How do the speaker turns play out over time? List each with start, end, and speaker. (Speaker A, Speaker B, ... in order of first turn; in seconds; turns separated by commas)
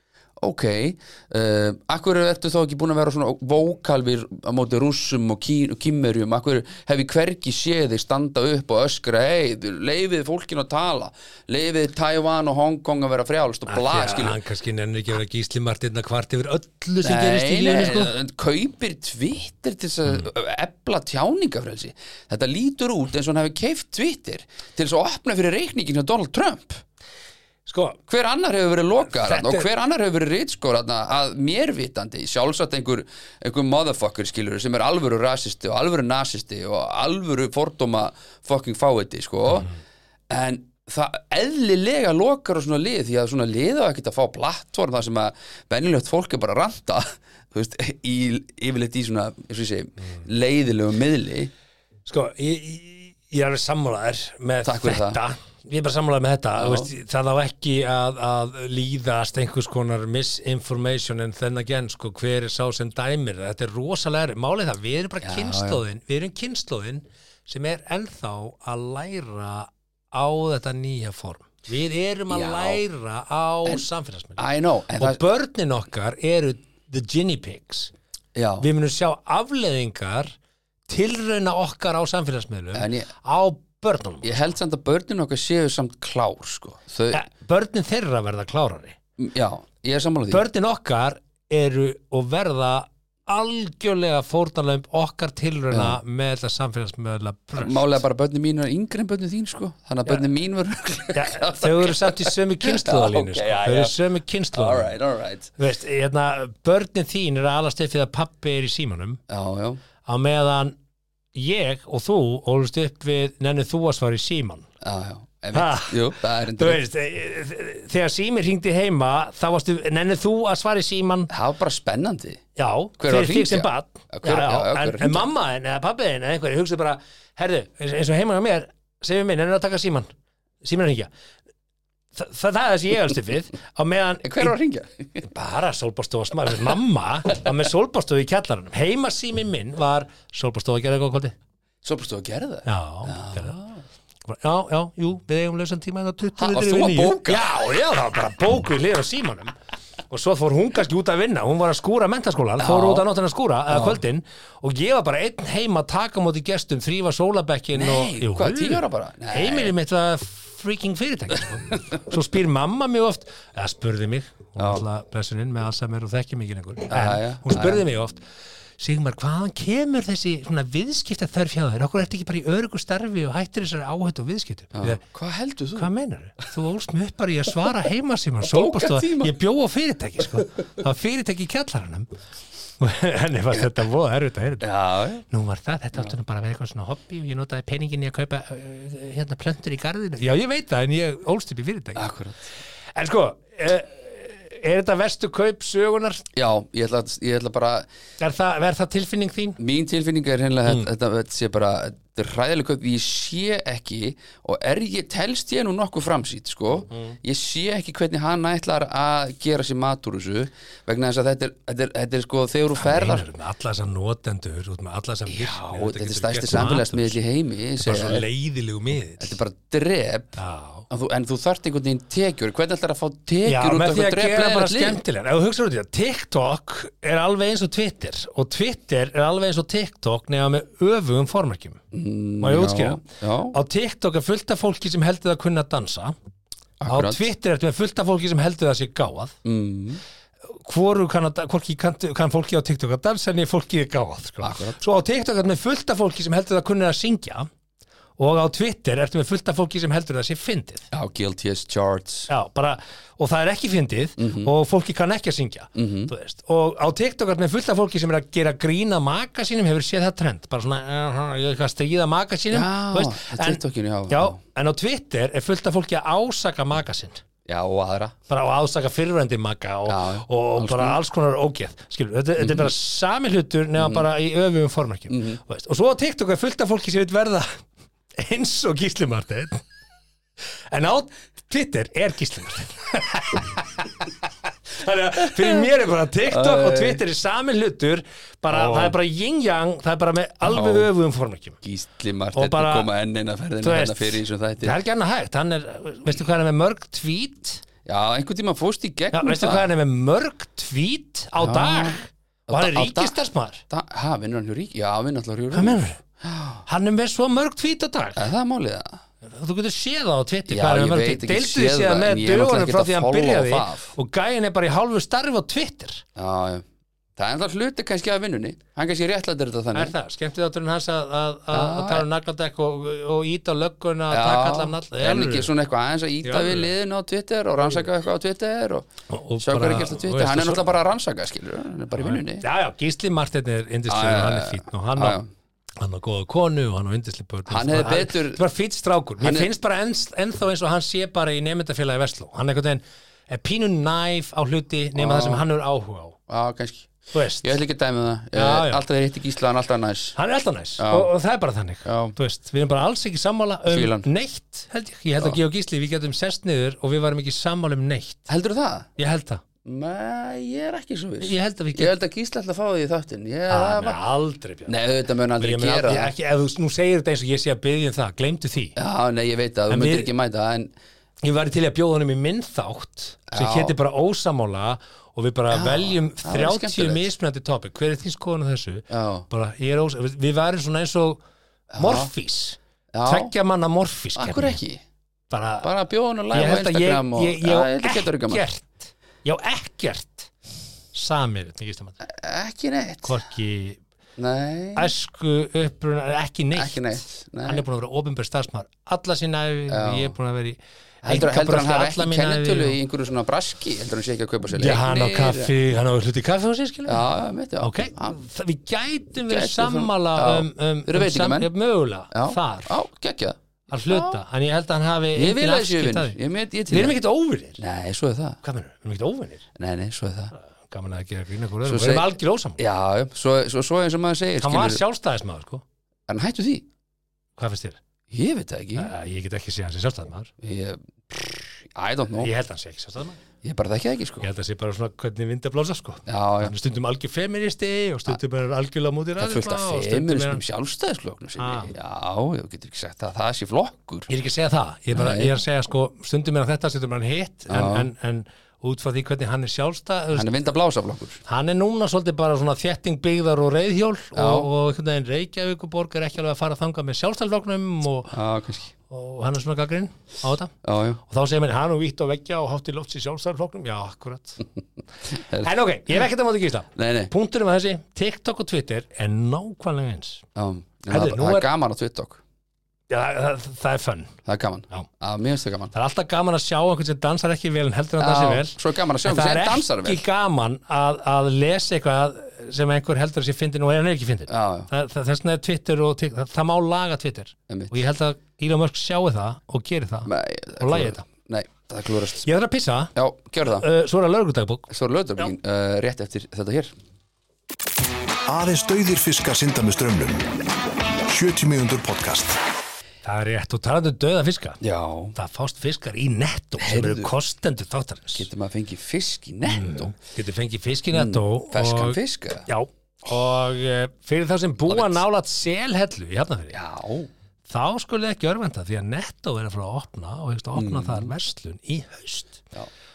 Speaker A: 0.4-14.4, Speaker B: 13.7-18.1, Speaker A: 17.0-26.8, Speaker B: 27.7-28.0, Speaker A: 28.1-39.7, Speaker B: 29.1-29.7, Speaker A: 40.3-51.5, Speaker B: 52.1-74.4, Speaker A: 54.6-55.2, Speaker A: 56.6-56.9, Speaker A: 65.2-65.8, Speaker A: 72.3-72.8, Speaker A: 74.4-75.2, Speaker B: 75.0-77.9, Speaker A: 78.3-78.7, Speaker B: 78.6-80.3, Speaker B: 80.9-84.4, Speaker A: 82.7-83.1, Speaker A: 84.2-87.2, Speaker B: 87.1-89.0, Speaker A: 89.2-90.5, Speaker B: 90.3-98.0, Speaker A: 95.7-96.0, Speaker A: 97.6-104.0, Speaker B: 101.1-105.0, Speaker A: 104.5-105.5, Speaker B: 105.6-109.2, Speaker A: 109.3-109.8, Speaker B: 110.0-110.8, Speaker B: 111.3-114.7, Speaker A: 114.8-116.8, Speaker B: 115.5-121.3, Speaker A: 121.3-122.4, Speaker B: 122.6-130.1, Speaker A: 123.0-125.3, Speaker B: 130.6-131.1, Speaker B: 132.2-134.6, Speaker A: 134.2-135.2, Speaker B: 135.2-141.3, Speaker A: 141.8-143.8, Speaker B: 142.7-143.6, Speaker B: 144.3-149.6, Speaker A: 146.4-147.5, Speaker B: 150.1-168.2, Speaker A: 152.6-153.1, Speaker A: 153.7-154.0, Speaker A: 157.8-159.7, Speaker A: 164.6-164.8, Speaker A: 166.9-167.8, Speaker B: 168.8-175.0, Speaker A: 174.8-175.9, Speaker B: 175.8-182.1, Speaker A: 178.4-179.3, Speaker B: 182.8-184.7, Speaker A: 184.6-185.2, Speaker B: 185.3-192.1, Speaker A: 192.0-192.5, Speaker B: 192.9-196.2, Speaker A: 196.3-197.9, Speaker B: 198.2-199.6, Speaker A: 199.6-213.3, Speaker B: 206.9-207.2, Speaker B: 212.8-217.2, Speaker A: 215.3-218.3, Speaker B: 217.8-219.4, Speaker A: 219.2-225.0, Speaker B: 220.4-220.9, Speaker B: 223.4-231.8, Speaker A: 231.9-233.6, Speaker B: 232.4-236.2, Speaker A: 236.8-237.3, Speaker B: 236.9-239.4, Speaker A: 239.4-240.0, Speaker B: 240.5-247.5, Speaker A: 244.4-244.8, Speaker B: 248.2-250.9, Speaker A: 250.9-252.3, Speaker B: 252.3-267.2, Speaker A: 254.2-254.5, Speaker A: 255.8-256.1, Speaker A: 262.5-264.4, Speaker A: 267.5-268.2, Speaker B: 268.3-277.6, Speaker A: 269.9-271.0, Speaker A: 272.4-272.7, Speaker A: 273.8-274.1, Speaker A: 275.1-275.4, Speaker B: 278.2-279.6, Speaker B: 280.7-284.1, Speaker B: 284.7-291.6, Speaker A: 286.3-287.0, Speaker A: 288.5-289.0, Speaker A: 290.4-290.9, Speaker A: 291.6-294.8, Speaker B: 292.4-292.9, Speaker B: 293.6-297.6, Speaker A: 297.9-299.7, Speaker B: 299.1-303.6, Speaker A: 301.4-303.2, Speaker A: 303.7-306.6, Speaker B: 305.5-306.0, Speaker B: 306.7-308.2, Speaker A: 308.2-309.0, Speaker B: 309.2-316.1, Speaker A: 310.5-313.9, Speaker A: 316.2-316.6, Speaker A: 317.2-319.9, Speaker B: 319.7-325.5, Speaker A: 321.5-322.1, Speaker A: 324.1-328.9, Speaker B: 326.2-326.7, Speaker B: 329.1-330.7, Speaker A: 329.4-332.4, Speaker B: 332.0-335.2, Speaker A: 333.9-335.3, Speaker B: 335.8-346.2, Speaker A: 337.5-338.4, Speaker A: 339.2-339.5, Speaker A: 344.9-345.4, Speaker A: 346.3-350.2, Speaker B: 347.1-347.6, Speaker B: 348.3-348.9, Speaker B: 350.2-358.3, Speaker A: 350.8-351.1, Speaker A: 351.9-352.1, Speaker A: 353.7-354.1, Speaker A: 358.3-358.9, Speaker B: 359.0-359.4, Speaker A: 359.6-364.0, Speaker B: 361.2-361.9, Speaker B: 363.5-364.8, Speaker A: 364.7-366.1, Speaker B: 365.4-368.8, Speaker A: 368.8-370.7, Speaker B: 369.7-370.1, Speaker B: 371.2-381.2, Speaker A: 373.3-373.8, Speaker A: 375.5-377.1, Speaker A: 378.9-379.3, Speaker A: 381.7-382.1, Speaker B: 381.8-384.6, Speaker A: 382.9-383.3, Speaker A: 384.1-384.8, Speaker B: 385.3-385.7, Speaker A: 385.6-388.4, Speaker B: 386.3-390.3, Speaker B: 390.9-392.0, Speaker A: 392.0-393.2, Speaker B: 393.1-393.8, Speaker A: 394.2-394.9, Speaker B: 394.8-402.8, Speaker A: 396.5-397.6, Speaker A: 399.7-400.1, Speaker A: 401.0-405.5, Speaker B: 404.5-407.1, Speaker A: 406.9-408.2, Speaker B: 407.6-412.7, Speaker A: 409.3-411.5, Speaker A: 412.1-414.2, Speaker B: 413.7-416.2, Speaker A: 415.1-417.0, Speaker B: 416.7-417.6, Speaker A: 417.6-418.4, Speaker B: 418.4-419.5, Speaker A: 419.6-420.3, Speaker B: 420.7-422.6, Speaker A: 421.6-424.8, Speaker B: 424.4-425.6, Speaker A: 426.1-426.7, Speaker B: 427.4-427.8, Speaker A: 428.1-428.9, Speaker B: 428.8-430.3, Speaker A: 430.4-432.3, Speaker B: 432.2-433.2, Speaker A: 433.4-434.3, Speaker B: 434.2-440.4, Speaker A: 436.1-436.5, Speaker A: 439.2-444.1, Speaker B: 441.4-441.7, Speaker B: 444.1-450.3, Speaker A: 444.9-445.4, Speaker A: 447.5-447.9, Speaker A: 450.1-451.2, Speaker B: 451.3-458.2, Speaker A: 454.1-454.5, Speaker A: 458.1-458.7, Speaker B: 458.9-464.4, Speaker A: 460.6-461.0, Speaker A: 465.1-465.5, Speaker B: 465.2-470.2, Speaker A: 466.8-467.1, Speaker A: 470.4-472.2, Speaker B: 470.9-471.5, Speaker B: 472.9-474.1, Speaker A: 474.3-475.7, Speaker B: 475.7-491.1, Speaker A: 478.0-480.1, Speaker A: 484.3-484.7, Speaker A: 487.5-487.7, Speaker A: 490.1-492.3, Speaker B: 492.2-492.9, Speaker A: 492.9-493.7, Speaker B: 493.4-494.7, Speaker A: 494.7-496.7, Speaker C: 498.3-500.3, Speaker C: 501.1-502.4, Speaker B: 503.0-504.6, Speaker A: 504.6-505.2, Speaker B: 505.1-508.3, Speaker A: 506.6-507.1, Speaker A: 508.1-509.9, Speaker B: 509.5-516.6, Speaker A: 510.9-512.5, Speaker A: 514.7-515.0, Speaker A: 516.5-517.1, Speaker B: 517.5-522.5, Speaker A: 520.5-521.1